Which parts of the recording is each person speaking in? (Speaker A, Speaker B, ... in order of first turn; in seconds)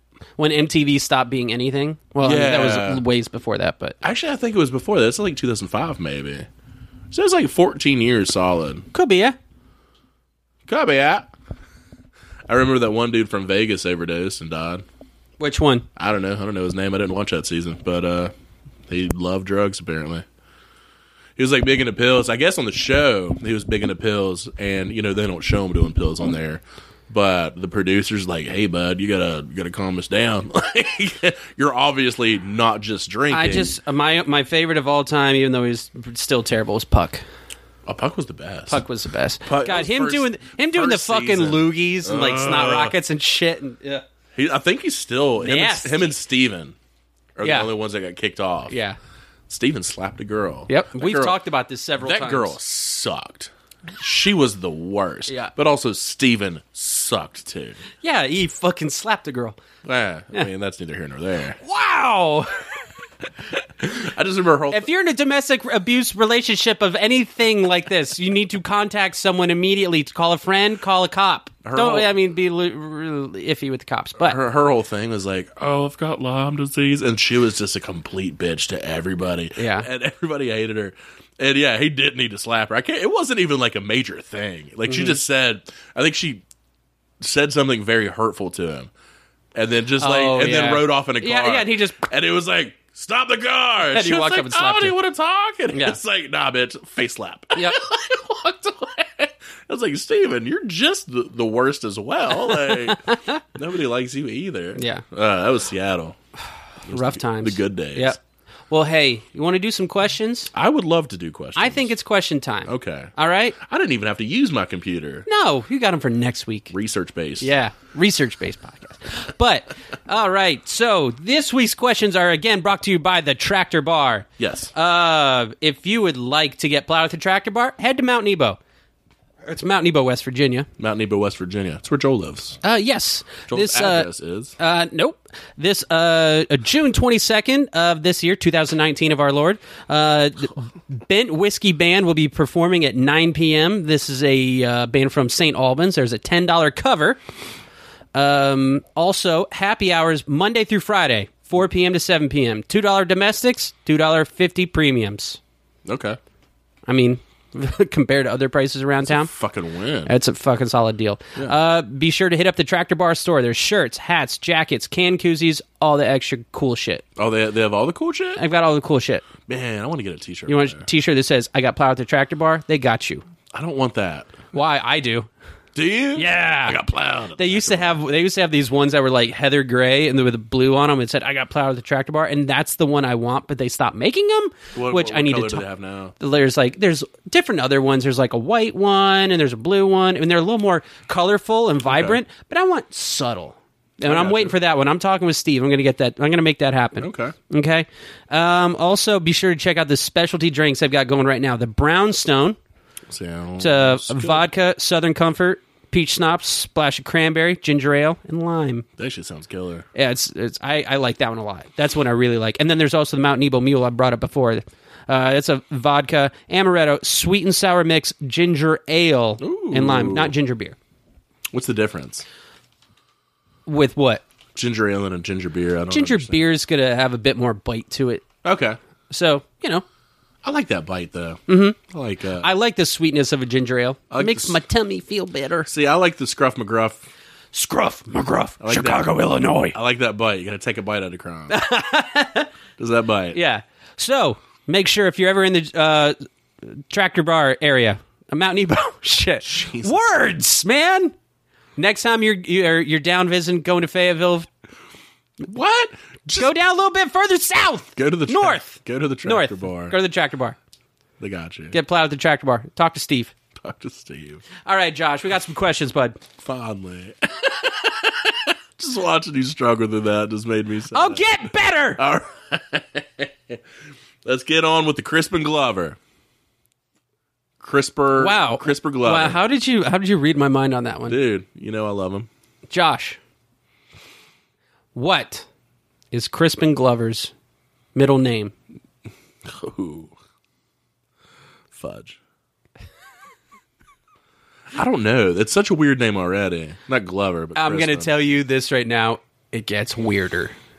Speaker A: 0.4-4.0, 8.9-9.4, 15.4-15.9, 33.3-37.2, 38.7-44.0, 45.4-46.1, 47.4-47.7, 48.7-49.0, 50.7-52.5, 58.0-59.6, 61.6-62.8, 64.7-74.4, 79.6-79.9, 84.9-85.2, 90.0-92.0, 93.8-95.0, 95.7-96.0, 102.4-103.4, 104.8-105.0, 106.9-108.2, 108.7-110.5, 111.6-113.6, 115.3-116.7, 117.4-128.6, 129.4-130.7, 132.6-147.2, 148.1-155.4, 156.9-159.3, 160.1-167.0, 168.4-169.3, 170.5-173.2, 174.5-175.3, 176.2-176.8, 177.4-185.6, 186.2-202.6, 203.6-208.9, 209.9-220.8, 223.7-224.2, 225.9-228.2, 229.1-229.8, 231.5-231.8, 232.4-235.7, 237.5-239.8, 241.5-242.5, 243.3-251.1, 251.8-254.5, 256.4-260.6, 261.7-263.3, 264.6-266.2, 270.9-272.0, 278.2-281.2, 282.7-283.2, 284.9-285.5, 286.1-287.3, 287.9-288.5, 297.6-300.6
Speaker B: 2.2-3.0, 4.0-6.5, 7.1-8.9, 10.7-11.3, 12.5-14.8, 16.0-18.3, 18.9-20.2, 21.4-33.8, 37.9-38.8, 39.5-43.0, 44.4-46.8, 47.4-48.8, 49.5-51.4, 52.0-57.8, 59.8-61.6, 63.5-64.9, 71.6-72.1, 74.2-86.4, 87.2-88.9, 89.5-106.2, 106.8-108.2, 110.5-111.9, 112.7-115.3, 116.7-117.5, 124.4-124.7, 130.8-132.6, 133.5-134.6, 155.9-156.2, 159.1-160.1, 167.2-168.4, 169.5-170.9, 173.5-174.4, 175.8-178.0, 184.8-186.2, 191.9-192.2, 194.0-194.6, 197.0-197.3, 203.1-204.5, 209.0-209.9, 219.4-220.3, 221.5-222.2, 224.6-226.4, 228.4-228.8, 230.4-232.5, 234.1-234.6, 235.7-237.1, 238.6-239.2, 239.7-241.6, 242.8-243.4, 249.4-250.2, 255.4-256.5, 258.0-260.0, 261.2-261.8, 263.6-264.4, 266.4-271.4, 272.0-273.6, 274.2-276.0, 277.6-279.4, 281.1-282.3, 289.4-290.1, 291.7-292.2, 294.7-298.1